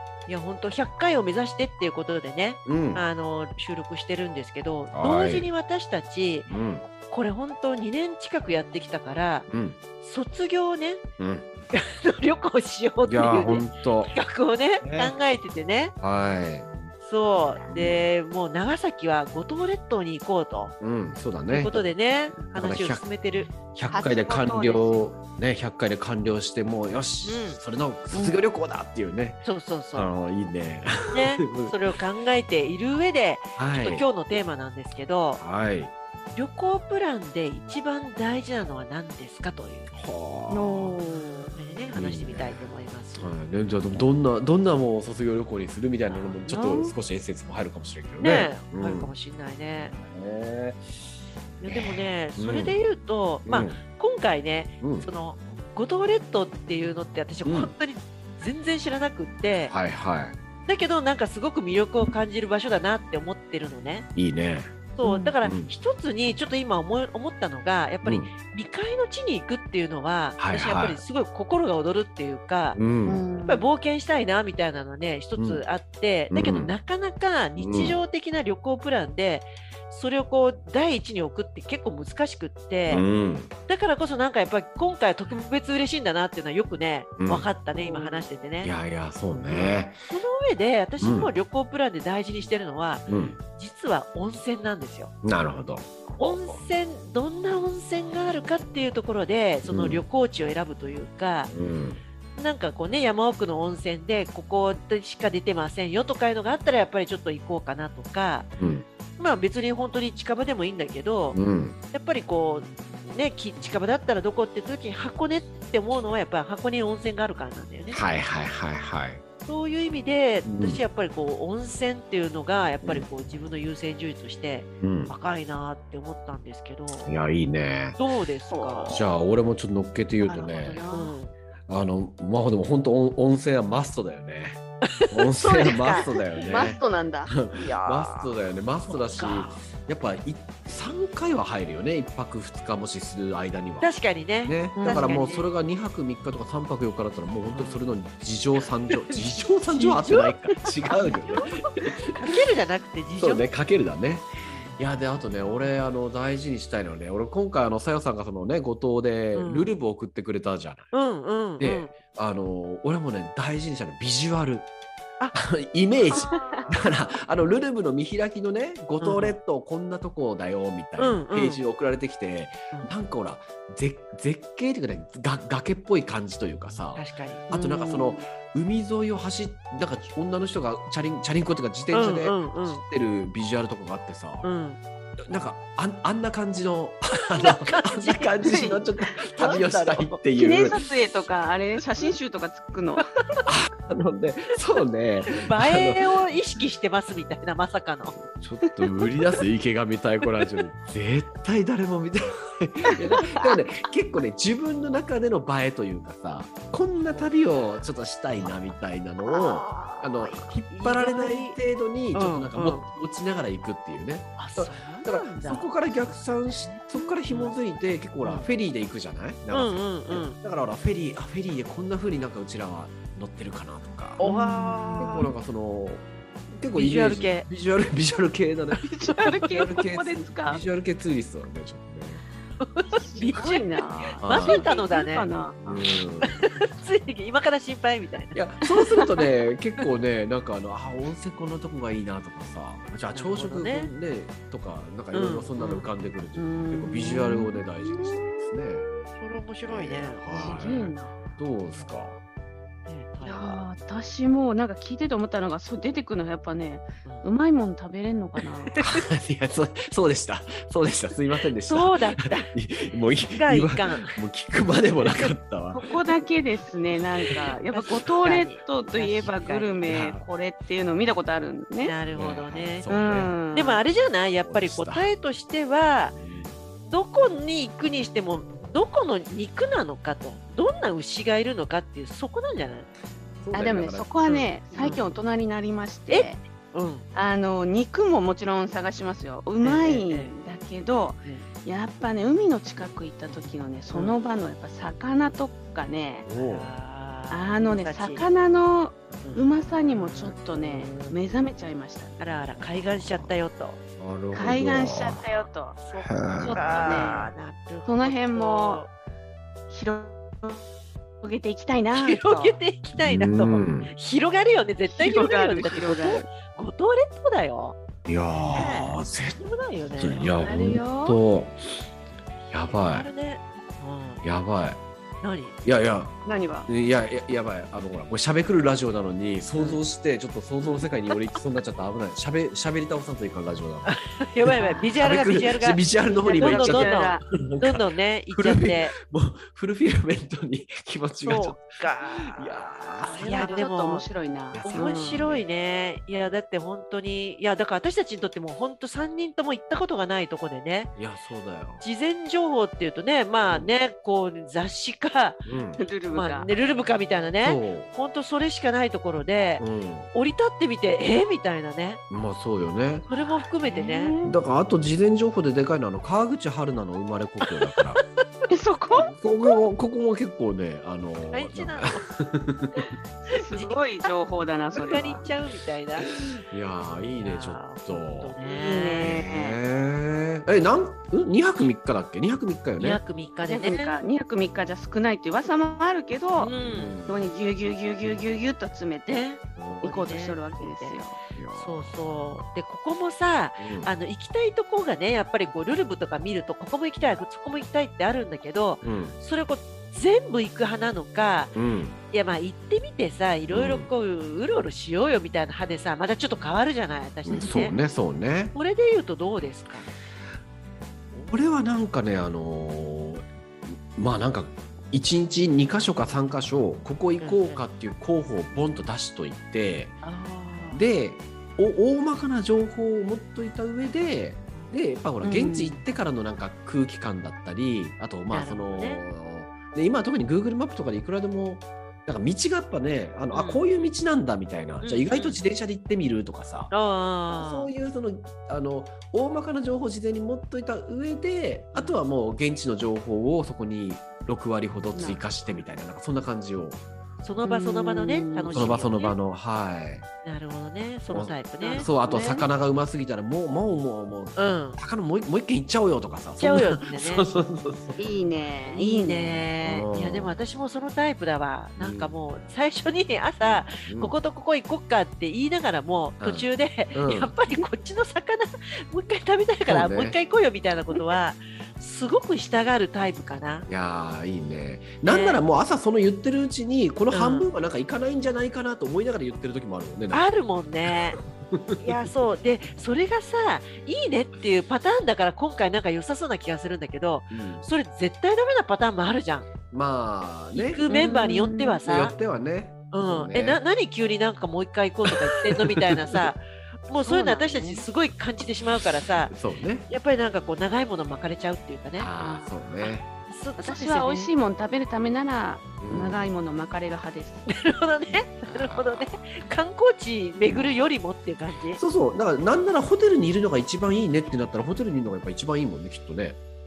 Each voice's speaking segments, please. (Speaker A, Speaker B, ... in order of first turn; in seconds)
Speaker A: 0.3-6.5, 7.1-9.5, 10.0-11.0, 11.7-15.9, 17.0-20.7, 21.5-23.5, 27.2-27.6, 29.4-30.1, 31.1-35.4, 36.3-39.9, 41.5-43.3, 46.1-46.9, 48.2-49.9, 51.6-59.7, 60.7-64.1, 64.9-72.8, 73.4-83.0, 83.7-88.7, 89.5-95.1, 96.2-101.5, 102.4-108.5, 109.2-111.4, 111.9-118.0, 119.4-127.1, 128.0-129.0, 130.5-131.3, 135.1-135.8, 136.3-136.7, 139.1-139.6, 143.8-145.5, 147.5-147.8, 148.9-150.4, 151.0-153.4, 159.3-159.8, 160.9-161.9, 166.3-166.5, 169.0-169.4, 171.0-171.6, 176.9-178.1, 181.9-182.8, 184.4-184.8, 187.3-188.7, 189.2-190.2, 193.0-193.4, 195.3-198.2, 207.1-207.7, 209.2-211.6, 212.1-212.9, 214.4-217.5, 218.2-218.5, 219.5-220.4, 224.2-225.3, 226.7-227.5, 229.1-229.6, 232.6-235.3, 236.2-238.4, 243.1-243.9, 245.1-245.9, 249.1-250.6, 252.9-253.6, 258.7-259.0, 261.6-262.5, 263.3-264.2, 267.3-269.8, 271.8-276.1, 276.8-282.9, 284.2-285.1, 286.1-287.0, 289.6-290.3, 293.9-294.2, 296.4-298.3, 299.2-301.1, 302.2-303.8, 305.3-308.9, 311.9-317.8, 318.5-320.4, 322.6-324.2, 325.2-325.6, 329.5-329.8, 330.6-331.4, 333.8-338.9, 341.2-342.6, 343.2-344.1, 344.6-350.9, 351.8-355.4, 356.1-362.0, 363.1-364.1, 367.4-368.1, 371.3-372.0, 373.5-374.0, 374.7-376.1, 377.2-379.2, 382.8-384.0, 386.4-386.9, 389.1-391.0, 391.5-401.6, 402.1-407.8, 408.5-409.9, 417.2-417.6, 420.0-420.8, 428.3-429.0, 433.3-433.9, 434.8-435.4, 436.7-437.7, 441.7-442.0, 447.2-449.2, 450.2-451.9, 454.4-454.8, 456.4-457.2, 458.7-473.6, 475.0-475.4, 477.1-477.5, 480.1-481.2, 481.8-489.5, 490.5-492.1, 492.9-499.4, 499.9-502.1, 502.8-504.3, 507.5-511.8
Speaker B: 2.6-3.0, 4.9-5.5, 6.5-6.9, 9.5-9.8, 11.2-11.5, 13.0-14.1, 14.8-15.2, 16.0-16.7, 17.7-18.1, 20.8-21.9, 22.4-29.4, 29.9-31.7, 33.5-34.0, 35.4-35.9, 39.9-41.0, 41.9-49.1, 49.8-50.8, 51.6-52.8, 53.5-53.8, 54.8-55.1, 57.4-57.7, 59.7-60.4, 64.2-64.7, 65.4-65.7, 68.0-68.3, 70.4-71.0, 72.7-73.2, 75.4-75.6, 76.3-76.7, 77.6-78.0, 82.9-83.5, 87.2-87.5, 88.6-90.0, 91.0-91.3, 93.1-93.4, 95.2-96.6, 99.7-100.0, 101.5-102.0, 108.6-108.8, 111.3-111.8, 117.9-119.2, 120.4-120.8, 124.8-125.1, 127.0-128.0, 128.9-130.8, 131.7-134.6, 135.1-143.9, 144.4-152.1, 153.2-160.9, 161.6-164.7, 165.3-184.5, 185.3-190.8, 193.4-196.3, 198.2-224.3, 224.9-232.2, 234.2-234.7, 235.6-236.4, 238.3-248.8, 249.7-252.2, 258.8-265.8, 269.9-270.2, 272.1-273.4, 274.4-275.1, 276.1-276.6, 283.4-284.1, 284.7-285.1, 296.2-296.7, 302.9-303.3, 303.9-305.2, 306.0-307.3, 313.0-313.9, 318.1-319.4, 320.0-321.6, 322.5-323.1, 324.2-324.8, 325.6-326.1, 326.7-333.9, 334.4-343.7, 344.5-345.4, 350.9-351.8, 353.4-353.7, 355.4-355.8, 357.4-357.9, 359.6-360.1, 362.1-363.1, 364.2-368.0, 369.0-372.9, 376.5-378.3, 379.0-383.0, 386.5-387.3, 389.6-389.9, 391.3-391.9, 393.6-393.9, 398.8-399.2, 401.5-402.0, 403.5-403.9, 407.2-408.5, 411.1-413.2, 413.9-420.0, 420.7-436.7, 437.3-446.8, 448.5-450.1, 451.1-458.0, 459.6-460.4, 461.8-462.1, 463.4-464.1, 466.2-467.3, 469.6-470.1, 473.7-480.3, 481.5-481.8, 487.3-487.7, 489.7-491.2, 491.8-493.6, 495.0-496.3, 499.3-499.9, 502.0-503.1, 505.8-506.3, 508.1-509.1, 510.4-510.7, 511.8-516.4
Speaker C: 17.4-17.6, 23.9-25.1, 28.1-28.4, 40.5-41.5, 65.0-65.3, 73.0-73.7, 87.8-88.2, 128.5-129.1, 130.2-131.2, 135.4-138.3, 144.8-145.3, 166.1-166.9, 188.4-189.6, 190.3-193.0, 224.2-225.3, 228.8-230.6, 232.9-235.8, 238.8-239.1, 246.3-249.0, 250.3-251.2, 253.2-258.7, 265.7-271.9, 272.9-273.8, 283.5-286.4, 287.1-296.2, 297.3-302.1, 304.3-305.8, 306.4-307.3, 307.8-308.8, 309.7-310.6, 311.2-312.6, 314.9-316.3, 320.4-321.2, 326.2-326.7, 334.6-335.0, 336.1-337.2, 343.1-345.3, 355.8-356.5, 363.6-364.4, 368.5-369.1, 373.2-375.3, 378.4-379.6, 383.5-386.5, 387.1-389.2, 389.8-391.1, 425.2-425.8, 444.9-445.2, 447.4-448.8, 451.6-452.5, 458.0-459.4, 490.9-491.8, 497.1-497.8, 502.2-502.6, 503.6-507.5